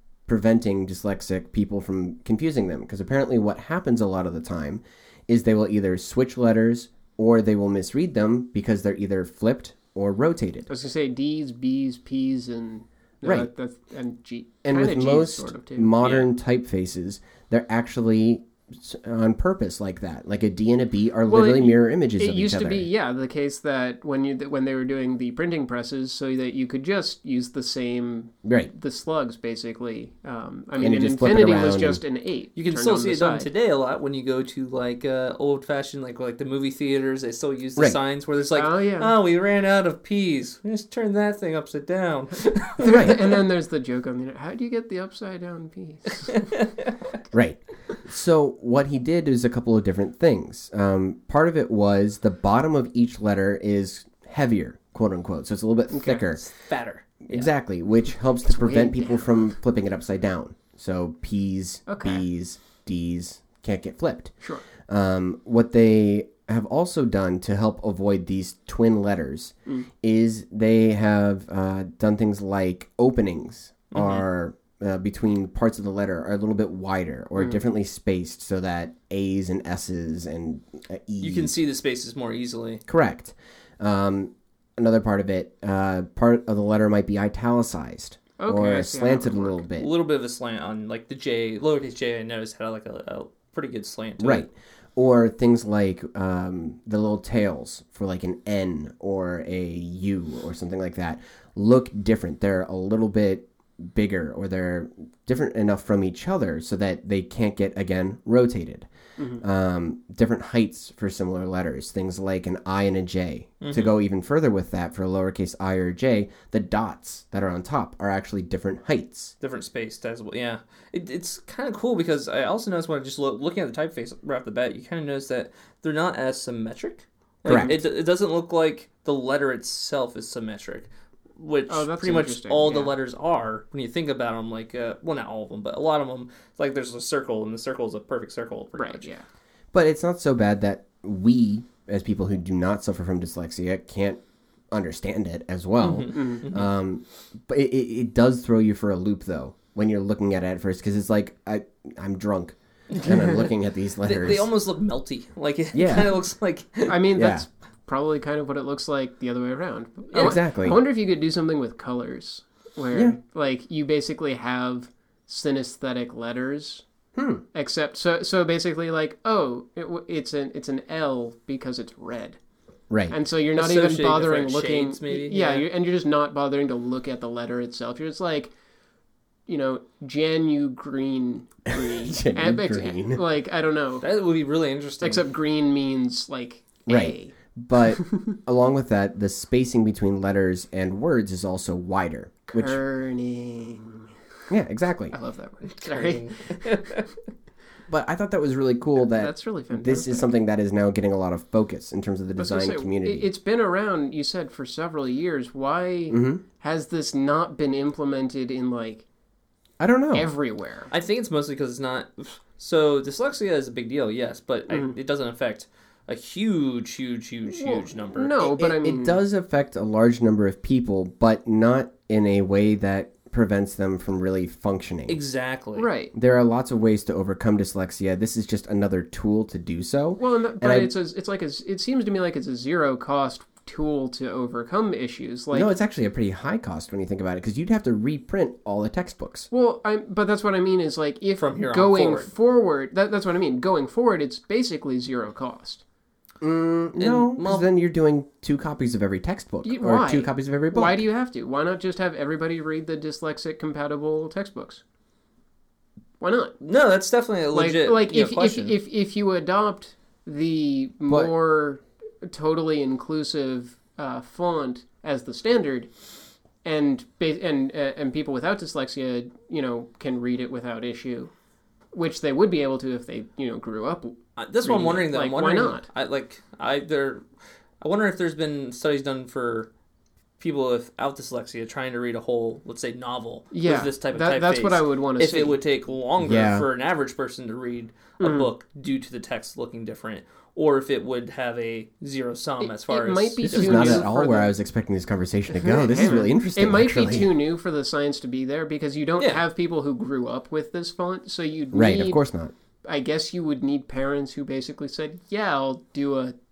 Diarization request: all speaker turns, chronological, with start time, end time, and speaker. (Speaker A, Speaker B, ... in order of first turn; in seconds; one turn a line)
Speaker A: 0.3-10.7
Speaker B: 10.7-16.2
Speaker A: 13.2-13.5
Speaker A: 14.6-22.9
Speaker B: 21.3-33.5
Speaker A: 28.4-28.7
Speaker A: 30.8-32.0
Speaker C: 32.5-43.2
Speaker B: 38.5-39.1
Speaker B: 42.8-46.5
Speaker A: 42.9-43.2
Speaker C: 46.3-46.9
Speaker A: 47.3-56.4
Speaker B: 55.9-56.2
Speaker C: 56.4-57.5
Speaker A: 57.3-64.3
Speaker B: 58.5-59.5
Speaker B: 61.9-62.2
Speaker A: 64.9-81.5
Speaker C: 73.9-74.2
Speaker C: 81.2-82.8
Speaker A: 82.9-89.9
Speaker B: 88.4-89.6
Speaker C: 89.8-94.5
Speaker A: 94.2-108.9
Speaker B: 109.2-109.4
Speaker A: 109.4-119.3
Speaker C: 113.6-113.9
Speaker C: 119.4-139.1
Speaker A: 127.5-127.8
Speaker B: 131.7-132.9
Speaker B: 138.8-139.2
Speaker A: 139.7-154.4
Speaker C: 145.8-146.7
Speaker B: 146.1-146.4
Speaker C: 152.9-153.4
Speaker C: 154.0-157.0
Speaker A: 155.7-156.2
Speaker B: 156.8-166.8
Speaker A: 157.1-157.4
Speaker C: 160.1-160.4
Speaker A: 160.2-160.8
Speaker A: 167.1-167.4
Speaker B: 167.5-172.4
Speaker A: 172.9-173.2
Speaker B: 173.1-178.5
Speaker C: 173.5-175.7
Speaker B: 179.5-184.0
Speaker A: 181.7-183.2
Speaker C: 184.0-185.3
Speaker B: 185.0-187.3
Speaker A: 186.9-192.8
Speaker B: 187.9-188.3
Speaker B: 192.5-194.1
Speaker A: 194.5-195.1
Speaker B: 195.1-196.8
Speaker C: 195.7-197.1
Speaker A: 197.9-203.2
Speaker B: 199.0-200.3
Speaker B: 202.4-209.1
Speaker A: 206.1-206.4
Speaker A: 209.8-210.3
Speaker B: 210.1-210.9
Speaker C: 210.9-218.3
Speaker B: 214.7-214.9
Speaker B: 217.5-219.2
Speaker A: 218.4-225.2
Speaker C: 225.1-225.9
Speaker B: 225.8-226.1
Speaker A: 226.1-230.9
Speaker B: 230.2-235.7
Speaker A: 235.5-239.5
Speaker B: 239.5-245.8
Speaker C: 241.4-242.3
Speaker A: 246.4-251.0
Speaker C: 247.0-247.7
Speaker B: 249.6-254.8
Speaker B: 256.2-256.6
Speaker C: 256.6-258.7
Speaker B: 257.5-265.9
Speaker B: 266.6-271.3
Speaker B: 271.9-275.9
Speaker C: 274.4-277.2
Speaker C: 277.8-279.7
Speaker C: 280.4-294.1
Speaker B: 283.5-285.6
Speaker A: 286.2-286.7
Speaker B: 288.2-288.5
Speaker B: 292.6-294.5
Speaker A: 293.4-297.3
Speaker B: 295.5-302.2
Speaker A: 301.7-302.5
Speaker B: 302.8-306.3